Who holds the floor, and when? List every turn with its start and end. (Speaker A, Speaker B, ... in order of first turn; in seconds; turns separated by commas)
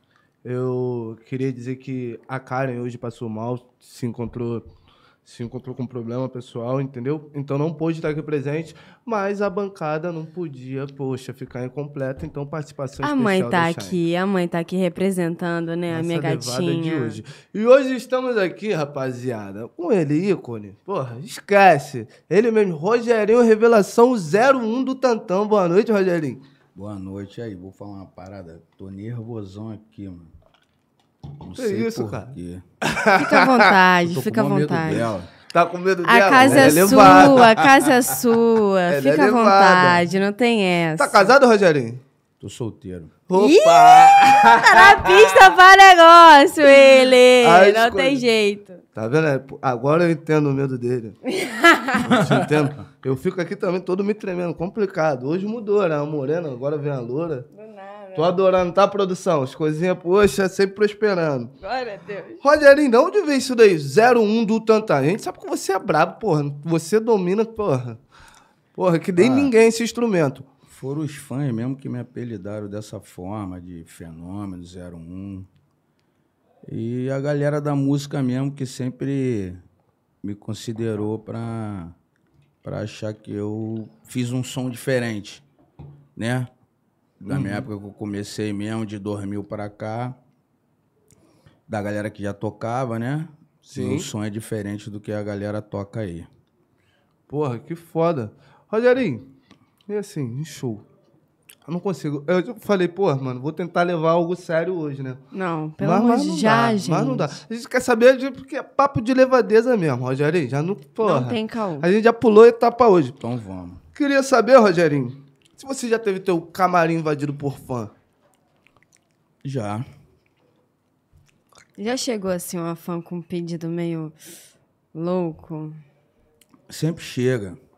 Speaker A: 0.4-4.7, Speaker A: 5.2-14.0, Speaker B: 13.0-17.2, Speaker A: 15.9-26.4, Speaker C: 26.8-30.3, Speaker C: 31.4-32.6, Speaker A: 31.6-33.8, Speaker B: 33.1-35.1, Speaker C: 34.0-35.3, Speaker A: 35.5-37.9, Speaker B: 36.0-41.3, Speaker C: 36.4-37.5, Speaker A: 38.9-40.0, Speaker A: 41.0-42.0, Speaker C: 42.4-43.1, Speaker A: 43.3-45.5, Speaker B: 43.4-48.8, Speaker A: 47.4-48.2, Speaker A: 49.0-51.2, Speaker B: 51.2-52.1, Speaker A: 52.0-57.5, Speaker C: 52.1-52.7, Speaker B: 57.5-58.3, Speaker A: 58.1-61.5, Speaker B: 61.6-62.4, Speaker A: 62.4-68.0, Speaker A: 68.8-70.5, Speaker C: 69.2-69.5, Speaker C: 70.7-75.5, Speaker C: 76.7-79.6, Speaker C: 80.2-82.0, Speaker C: 82.6-85.4, Speaker C: 86.2-86.5, Speaker C: 87.2-90.2, Speaker A: 87.3-87.7, Speaker C: 91.7-96.3, Speaker A: 93.6-94.1, Speaker A: 97.3-99.3, Speaker A: 99.9-100.8, Speaker A: 101.7-105.2, Speaker B: 105.3-107.4, Speaker A: 105.8-113.2, Speaker B: 111.0-111.9, Speaker C: 113.2-113.8, Speaker A: 114.0-117.9, Speaker C: 119.4-119.8, Speaker B: 121.8-124.2, Speaker B: 124.9-125.8, Speaker C: 126.7-127.6